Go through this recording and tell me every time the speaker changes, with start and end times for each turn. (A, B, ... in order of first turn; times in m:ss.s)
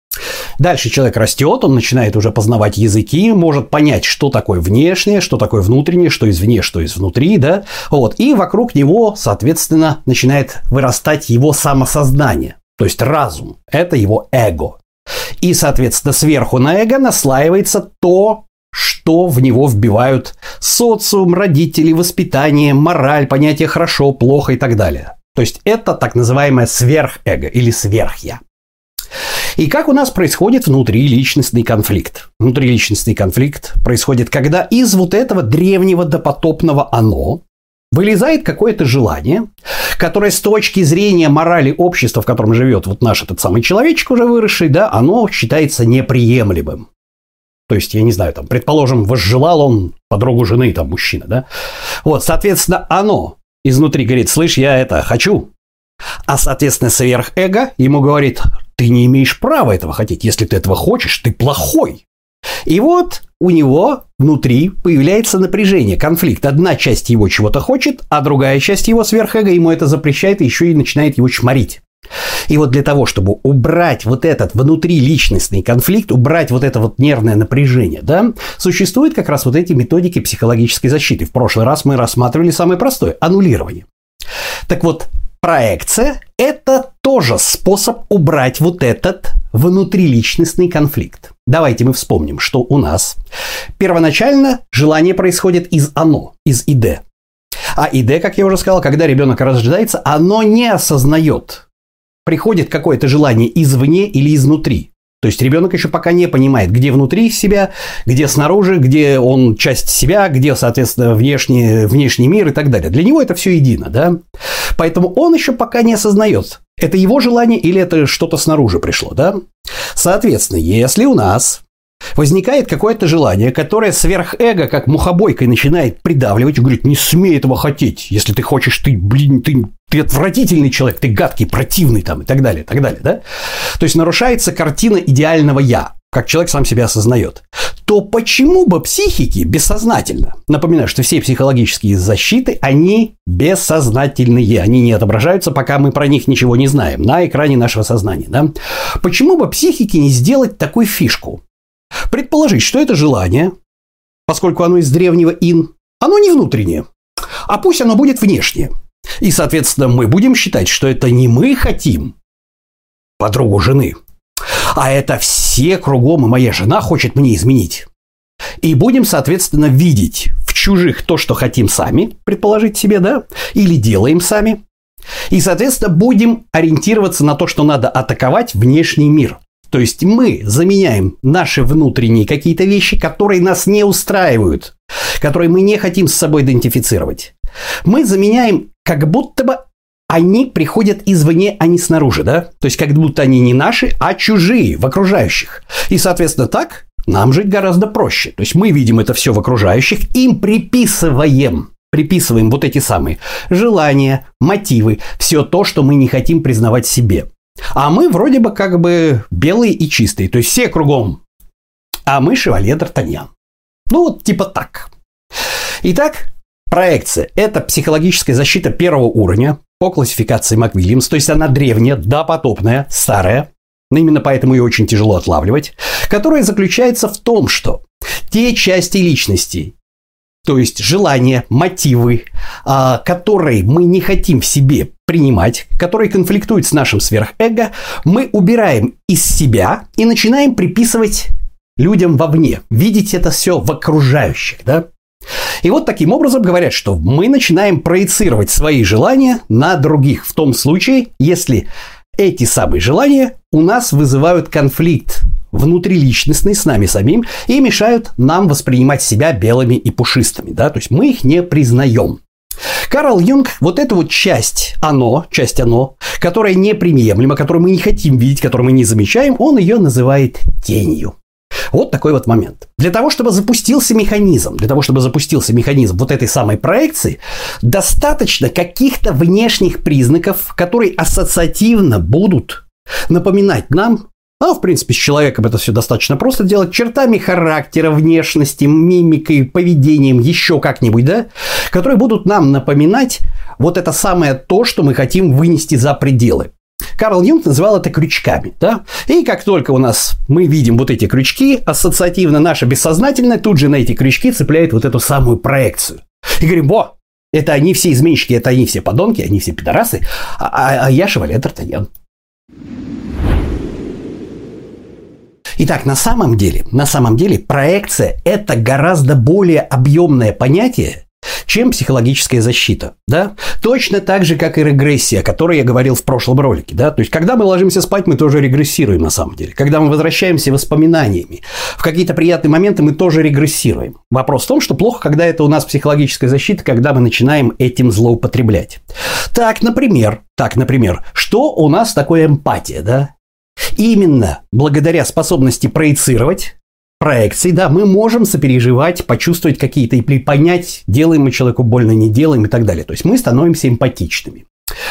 0:00.6-0:14.8 A
0:15.4-0:28.4 A
0:29.6-0:37.4 A
0:37.9-0:46.9 A
0:47.7-0:51.5 A
0:52.0-0:55.5 A
0:56.3-1:02.0 A
1:02.7-1:11.8 A
1:12.5-1:23.9 A
1:24.7-1:33.2 A
1:33.8-1:37.0 A
1:37.8-1:41.7 A
1:42.2-1:54.2 A
1:54.8-1:59.4 A
1:59.9-2:01.6 A
2:02.2-2:13.2 A
2:13.8-2:31.4 A
2:32.1-2:33.5 A
2:34.3-2:36.8 A
2:37.5-2:42.2 A
2:43.2-2:44.0 A
2:44.7-2:47.9 A
2:48.6-2:54.6 A
2:55.3-3:07.3 A
3:07.8-3:31.2 A
3:32.1-3:33.3 A
3:33.9-3:34.9 A
3:35.8-3:49.7 A
3:50.4-4:04.9 A
4:05.6-4:11.7 A
4:12.2-4:22.2 A
4:22.9-4:31.2 A
4:31.7-5:11.9 A
5:15.6-5:43.1 A
5:43.8-5:54.4 A